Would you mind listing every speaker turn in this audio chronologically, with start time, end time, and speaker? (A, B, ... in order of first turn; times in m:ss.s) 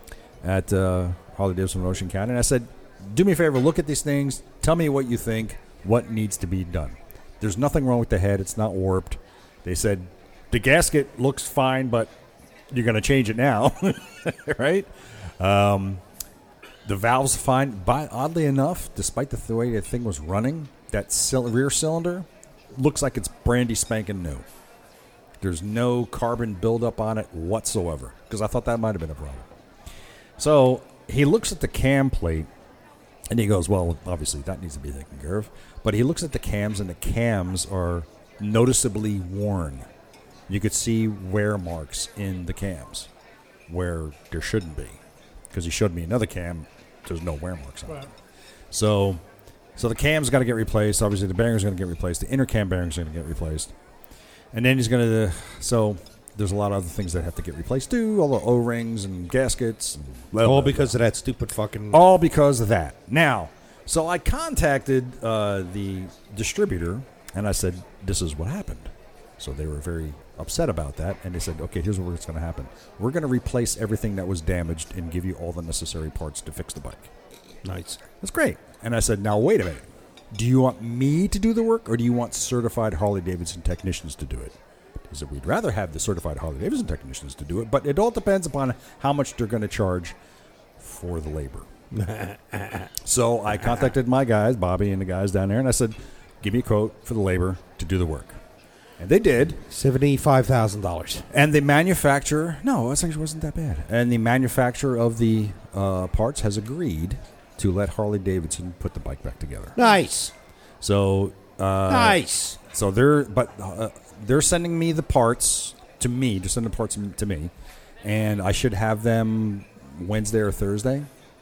0:00.4-0:12.1 A
0:12.7-0:16.0 A
0:16.8-0:24.5 A
0:25.4-0:29.5 A
0:30.4-0:32.5 A
0:33.3-0:39.9 A
0:40.5-0:43.1 A
0:43.7-0:45.0 A
0:45.5-0:48.1 A
0:48.7-0:49.2 A
0:49.8-0:53.7 A
0:54.5-1:01.0 A
1:00.4-1:02.0 B
1:01.9-1:17.1 A
1:17.6-1:18.0 B
1:18.2-1:24.6 A
1:25.1-1:30.2 A
1:30.8-1:31.7 A
1:31.9-1:32.9 B
1:33.0-1:38.4 A
1:39.0-1:39.6 A
1:39.7-1:41.3 B
1:41.3-1:49.8 A
1:49.8-1:50.3 B
1:50.8-1:57.5 A
1:51.9-1:52.6 B
1:58.0-2:01.1 A